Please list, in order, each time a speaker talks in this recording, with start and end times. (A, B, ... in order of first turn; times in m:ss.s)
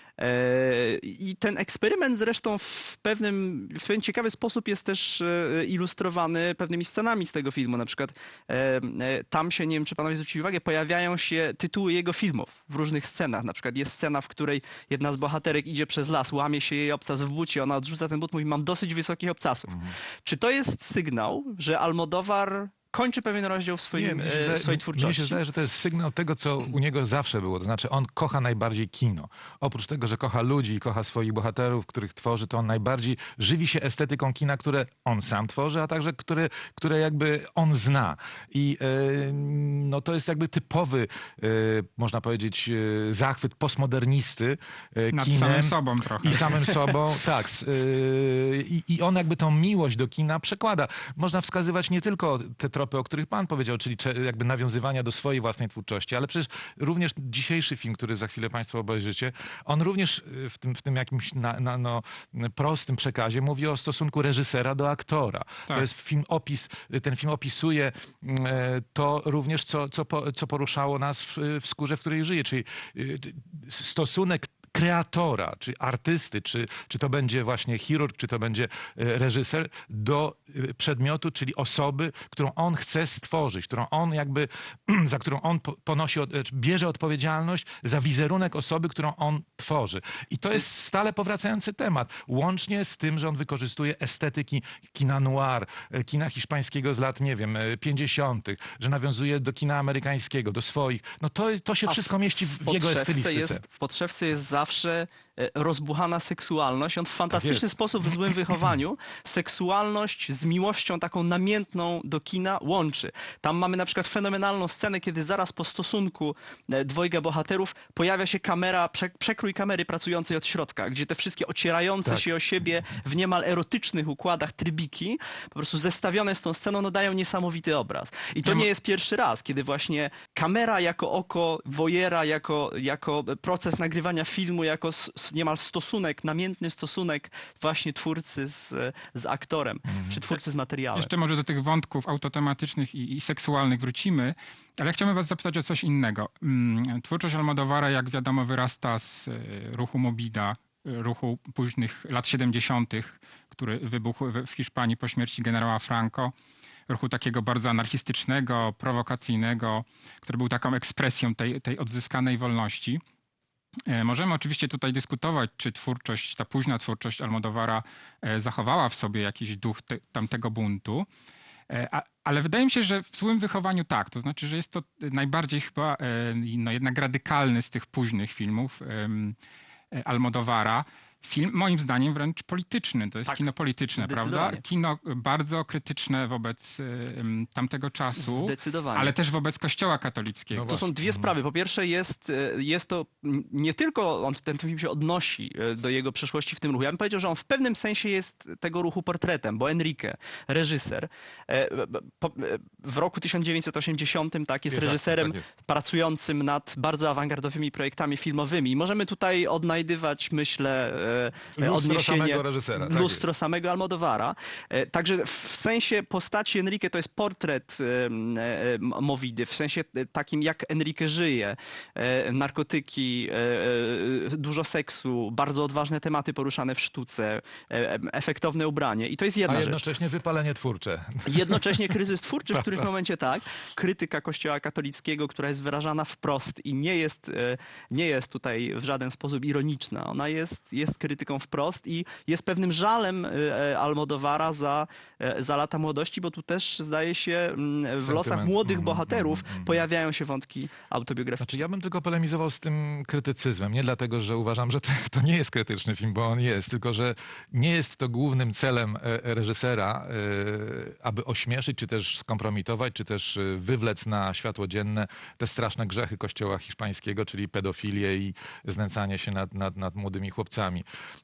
0:00.2-0:25.4 A
0:19.7-0:20.0 B
0:23.9-1:43.6 B
0:45.1-0:46.8 C
1:41.9-2:21.1 A
1:47.3-1:48.6 B
2:02.0-2:02.3 B
2:08.4-2:08.7 C
2:19.9-2:20.2 B
2:20.9-2:36.3 C
2:36.9-2:43.0 C
2:43.9-2:51.1 C
2:51.7-2:59.4 C
2:59.9-3:10.8 C
3:03.3-3:04.6 A
3:08.2-3:09.1 A
3:10.5-3:11.3 B
3:10.7-3:49.8 A
3:24.7-3:25.5 B
3:31.5-3:33.2 B
3:49.4-3:51.9 B
3:51.2-4:11.6 A
3:52.5-3:52.8 B
4:08.0-4:09.8 B
4:11.4-4:30.8 B